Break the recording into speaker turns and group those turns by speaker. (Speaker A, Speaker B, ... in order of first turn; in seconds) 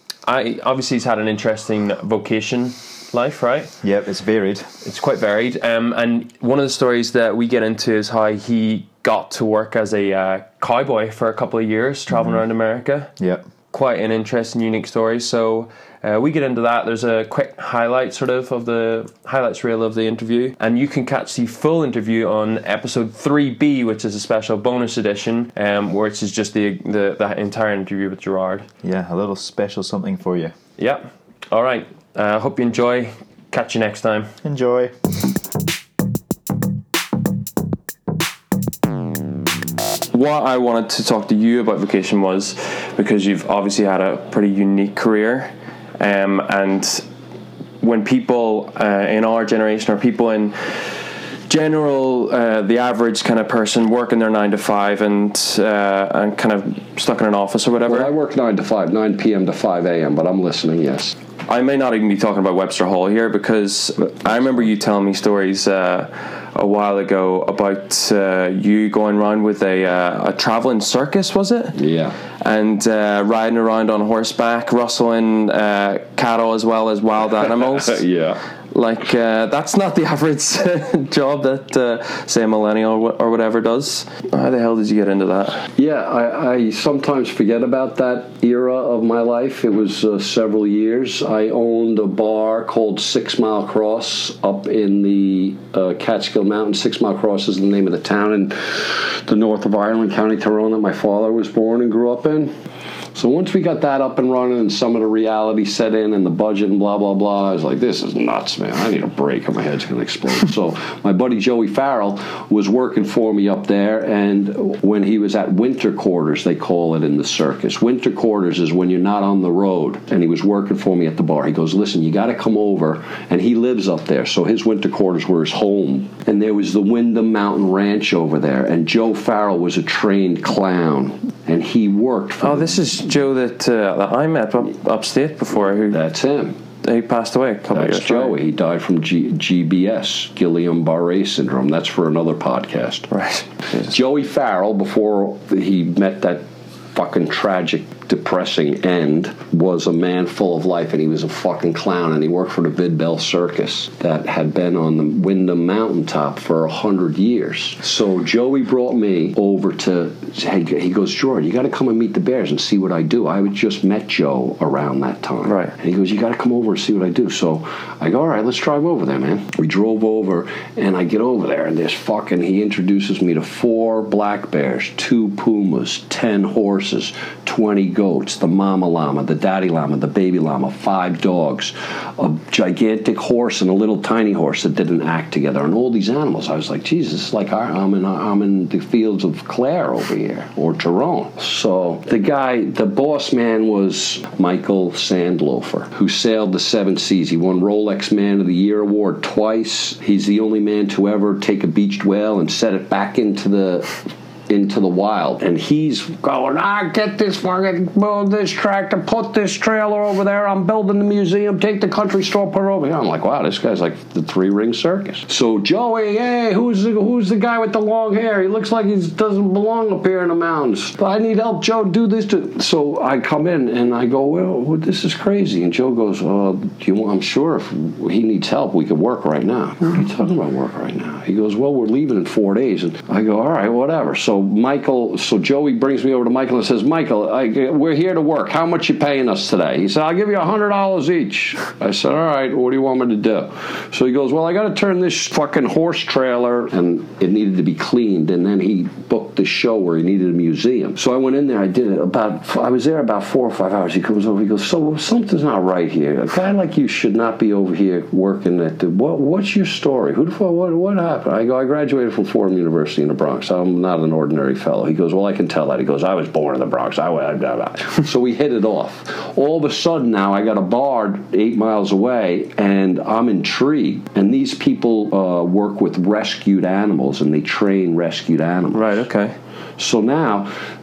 Speaker A: 0.2-3.7, 4.8-13.1, 13.7-28.7, 30.8-34.3, 40.1-47.0, 47.8-58.1, 61.5-71.8, 72.4-78.0, 78.7-85.7, 132.4-136.0, 136.8-138.4, 143.1-143.9, 165.4-165.7, 278.7-279.3
Speaker B: 3.8-4.7, 12.1-12.4, 13.2-13.4, 28.8-30.5, 34.4-34.9
Speaker C: 57.9-61.1, 71.7-72.2, 77.8-78.4, 85.8-102.5, 103.1-133.0, 135.9-136.6, 137.7-143.1, 143.8-279.1, 279.8-280.5